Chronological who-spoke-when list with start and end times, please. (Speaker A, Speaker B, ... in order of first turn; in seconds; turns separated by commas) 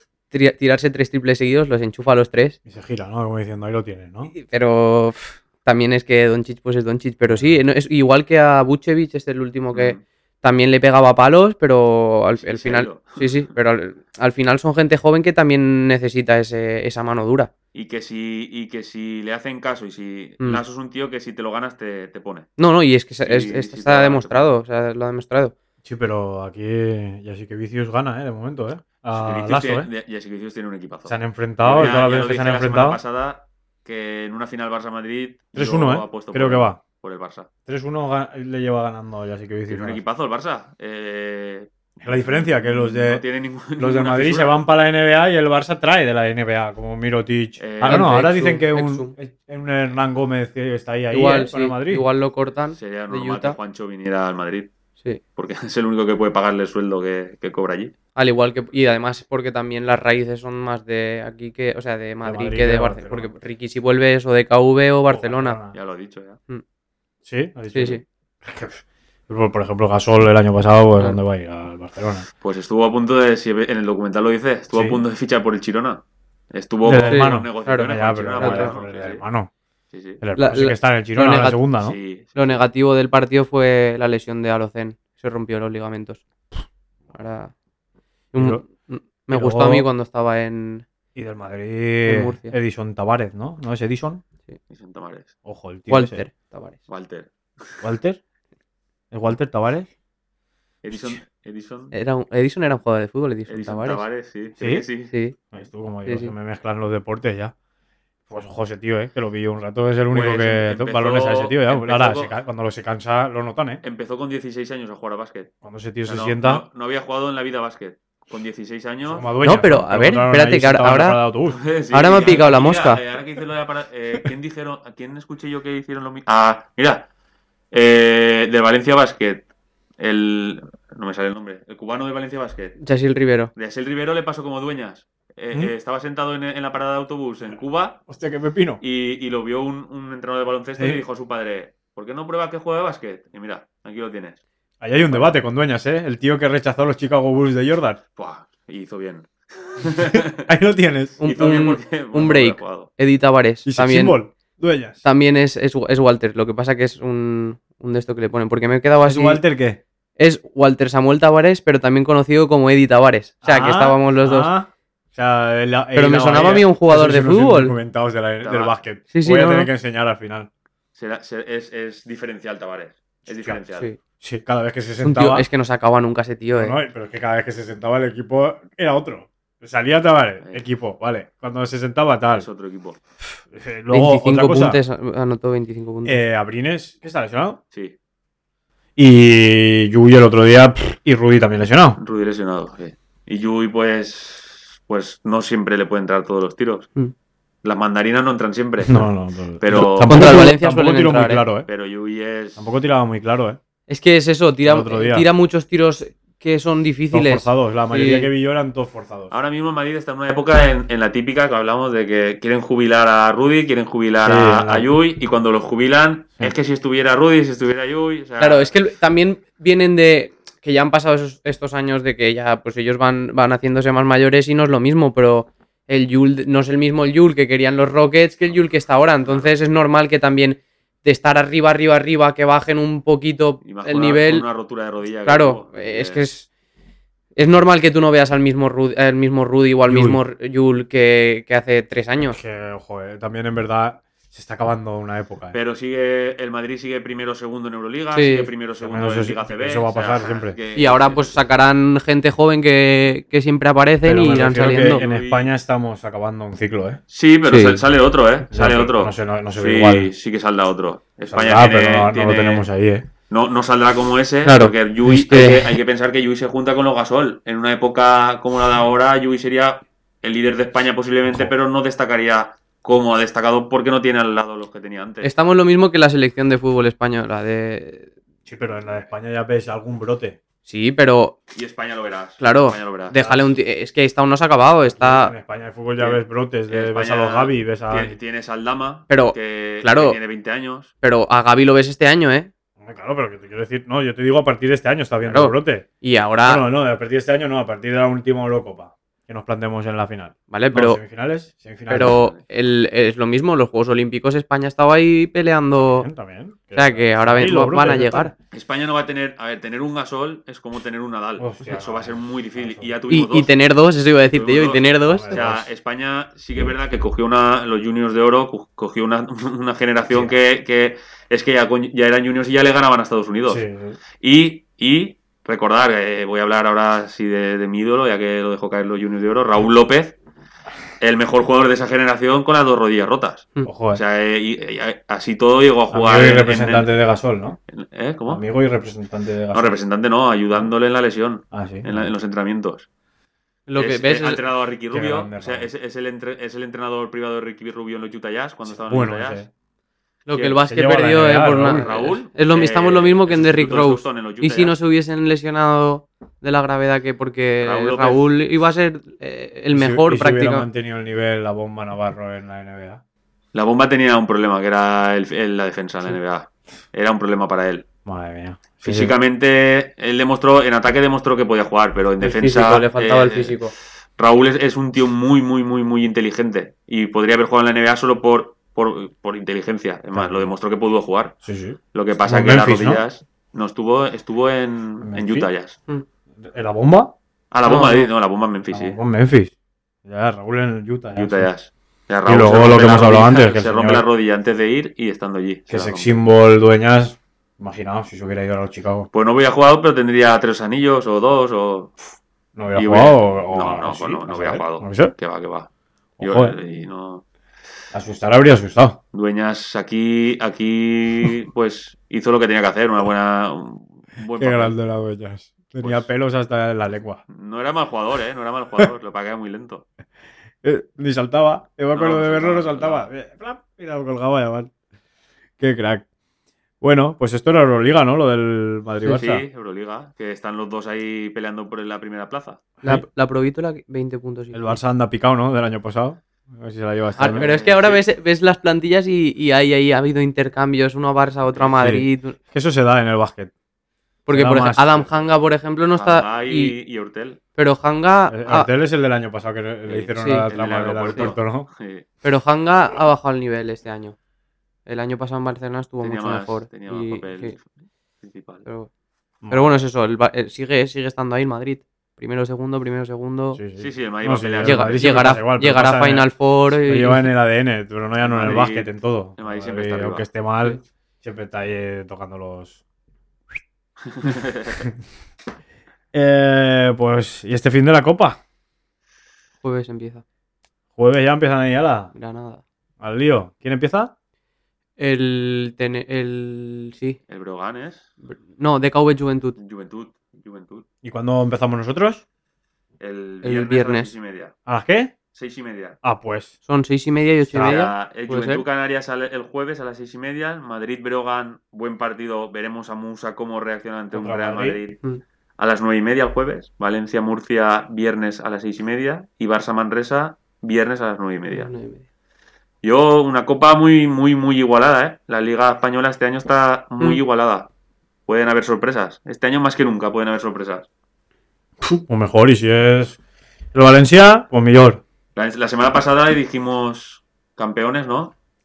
Speaker A: 0.3-2.6, Speaker B: 2.7-4.3, Speaker A: 4.3-17.5, Speaker B: 7.3-7.6, Speaker C: 9.7-10.0, Speaker C: 12.4-13.4, Speaker C: 17.7-22.5, Speaker A: 22.6-25.6, Speaker C: 23.2-24.5, Speaker B: 25.8-29.9, Speaker C: 29.1-37.5, Speaker B: 31.1-33.0, Speaker B: 35.5-36.8, Speaker B: 37.7-40.0, Speaker C: 39.7-44.6, Speaker B: 42.0-43.2, Speaker B: 43.8-52.0, Speaker C: 47.6-48.3, Speaker A: 47.8-49.1, Speaker A: 51.1-53.6, Speaker C: 52.8-54.7, Speaker C: 55.4-57.9, Speaker A: 58.1-65.6, Speaker B: 62.2-63.3, Speaker B: 65.1-65.8, Speaker C: 65.7-66.4, Speaker B: 67.2-72.3, Speaker A: 67.7-68.0, Speaker C: 72.4-79.2, Speaker B: 74.7-75.0, Speaker B: 76.8-79.5, Speaker A: 77.0-78.8, Speaker C: 79.9-80.2, Speaker B: 80.2-82.0, Speaker A: 80.4-81.6, Speaker C: 81.8-82.6, Speaker A: 82.4-86.2, Speaker A: 87.1-87.5, Speaker A: 88.3-90.8, Speaker B: 88.4-88.6, Speaker B: 89.3-89.9, Speaker B: 91.2-94.2, Speaker A: 92.0-92.6, Speaker C: 94.7-95.3, Speaker B: 95.5-96.2, Speaker A: 95.9-96.8, Speaker C: 96.9-97.8, Speaker B: 97.8-98.2, Speaker B: 99.1-99.9, Speaker C: 100.8-101.9, Speaker A: 101.9-104.0, Speaker C: 103.5-105.1, Speaker B: 104.6-104.9, Speaker A: 105.1-105.4, Speaker B: 105.5-107.5, Speaker A: 106.1-106.3, Speaker B: 108.3-113.8, Speaker C: 110.1-112.4, Speaker C: 113.8-115.5, Speaker B: 115.6-116.6, Speaker C: 116.0-119.3, Speaker B: 119.1-121.6, Speaker A: 119.4-121.2, Speaker C: 121.5-127.1, Speaker A: 121.9-123.0, Speaker C: 127.7-129.4, Speaker C: 130.0-132.8, Speaker A: 132.8-133.5, Speaker C: 133.6-138.0, Speaker B: 138.1-138.8, Speaker C: 138.8-144.4, Speaker B: 144.8-148.0, Speaker C: 145.0-145.4, Speaker C: 148.2-150.4, Speaker B: 150.1-151.2, Speaker A: 151.2-154.2, Speaker C: 151.2-152.9, Speaker B: 153.7-155.0, Speaker A: 155.0-159.4, Speaker B: 159.0-159.8, Speaker A: 160.2-164.5, Speaker B: 163.4-170.5, Speaker A: 165.9-167.8, Speaker C: 168.4-168.8, Speaker A: 169.1-169.7, Speaker C: 171.0-173.9, Speaker B: 173.3-173.6, Speaker B: 174.2-175.5, Speaker A: 175.0-176.8, Speaker B: 176.6-182.5, Speaker C: 182.3-183.0, Speaker B: 183.5-184.8, Speaker A: 183.9-186.2, Speaker B: 186.1-187.6, Speaker B: 189.0-192.0, Speaker C: 192.0-196.9, Speaker C: 197.6-199.1, Speaker B: 198.8-201.7, Speaker C: 199.6-200.4, Speaker A: 200.1-201.4, Speaker C: 201.7-202.7, Speaker B: 202.6-203.6, Speaker A: 203.9-208.3, Speaker B: 204.6-205.3, Speaker B: 207.1-209.3, Speaker C: 209.3-218.7, Speaker B: 214.2-214.9, Speaker A: 218.4-234.5, Speaker C: 229.2-229.5, Speaker C: 233.6-236.2, Speaker A: 235.3-236.5, Speaker A: 237.4-242.4, Speaker B: 239.9-240.2, Speaker B: 242.2-245.6, Speaker C: 245.5-251.3, Speaker A: 248.1-248.5, Speaker B: 248.8-250.6, Speaker A: 250.8-255.0, Speaker B: 254.0-257.0, Speaker C: 254.6-255.5, Speaker C: 257.1-262.6, Speaker A: 257.5-257.8, Speaker B: 258.5-260.1, Speaker B: 261.3-263.1, Speaker C: 263.3-275.3, Speaker A: 264.4-265.7, Speaker B: 271.3-271.5, Speaker A: 275.2-278.1, Speaker B: 278.5-280.4, Speaker A: 280.7-281.4, Speaker C: 281.5-283.2, Speaker A: 282.4-285.3, Speaker B: 283.2-283.5, Speaker B: 284.9-288.2, Speaker C: 286.0-290.9, Speaker A: 289.1-290.2, Speaker A: 291.0-292.5, Speaker B: 292.8-295.9, Speaker A: 295.3-296.7, Speaker B: 296.4-302.2, Speaker A: 300.5-301.0, Speaker A: 301.9-306.1, Speaker C: 302.0-302.4, Speaker B: 305.8-308.3, Speaker A: 306.8-308.3, Speaker C: 308.5-313.5, Speaker B: 311.4-312.9, Speaker A: 313.1-315.4, Speaker C: 314.3-323.6, Speaker B: 315.1-315.7, Speaker B: 320.1-320.4, Speaker B: 323.5-324.0, Speaker C: 324.2-330.1, Speaker C: 331.0-336.9, Speaker B: 333.6-334.0, Speaker B: 335.9-337.6, Speaker C: 337.7-338.4, Speaker B: 338.3-339.7, Speaker C: 339.5-342.9, Speaker B: 341.5-342.1, Speaker A: 343.7-344.4, Speaker C: 343.8-349.4, Speaker B: 344.9-345.7, Speaker B: 348.7-349.5, Speaker A: 350.3-360.7, Speaker B: 350.6-351.9, Speaker C: 351.6-354.8, Speaker C: 357.6-358.3, Speaker B: 359.7-363.0, Speaker C: 363.5-367.9, Speaker B: 368.1-369.1, Speaker C: 368.8-381.3, Speaker A: 372.2-373.7, Speaker B: 380.1-380.5, Speaker B: 381.4-383.0, Speaker C: 381.9-385.8, Speaker B: 385.0-385.5, Speaker B: 386.4-387.1, Speaker C: 387.5-389.0, Speaker A: 387.6-388.1, Speaker B: 388.7-389.5, Speaker B: 390.1-391.5, Speaker C: 391.1-396.2, Speaker B: 392.3-394.1, Speaker B: 395.7-399.1, Speaker C: 399.1-401.9, Speaker B: 402.6-405.1, Speaker C: 402.8-405.7, Speaker B: 406.2-406.6, Speaker C: 406.2-407.2, Speaker B: 407.9-409.0, Speaker C: 409.1-414.8, Speaker B: 414.4-417.2, Speaker C: 415.8-416.1, Speaker C: 417.3-419.9, Speaker B: 420.6-424.7, Speaker C: 421.9-423.1, Speaker B: 425.6-426.1, Speaker B: 426.8-429.4, Speaker C: 429.1-432.6, Speaker A: 432.8-434.8, Speaker B: 434.5-437.5, Speaker A: 437.2-442.4, Speaker C: 437.2-438.0, Speaker B: 441.7-443.5, Speaker A: 444.3-446.8, Speaker B: 444.3-445.1, Speaker C: 445.9-447.4, Speaker A: 447.6-448.7, Speaker B: 448.3-451.7, Speaker C: 449.9-452.1, Speaker A: 450.2-450.5, Speaker A: 452.2-454.1, Speaker A: 454.9-457.6, Speaker C: 456.0-457.7, Speaker C: 458.2-458.7, Speaker B: 459.4-459.8, Speaker A: 459.5-463.6, Speaker B: 463.5-472.8, Speaker C: 463.8-465.3, Speaker A: 464.6-467.3, Speaker C: 468.2-470.3, Speaker C: 474.1-474.9, Speaker B: 476.1-478.4, Speaker A: 479.6-480.2, Speaker B: 481.0-482.1, Speaker A: 482.1-482.6, Speaker B: 483.0-484.1, Speaker A: 485.0-487.2, Speaker C: 487.3-488.1, Speaker A: 488.2-489.6, Speaker C: 489.6-490.9, Speaker B: 491.0-492.2, Speaker C: 493.0-494.5, Speaker A: 493.4-494.1, Speaker B: 494.7-495.1, Speaker C: 495.3-496.0, Speaker B: 496.0-496.5, Speaker A: 496.7-498.6, Speaker C: 497.5-505.0, Speaker B: 504.1-504.8, Speaker C: 505.6-511.7, Speaker A: 511.5-512.0, Speaker C: 512.8-517.7, Speaker C: 518.3-520.9, Speaker B: 521.8-523.2, Speaker B: 523.7-525.0, Speaker C: 525.4-528.3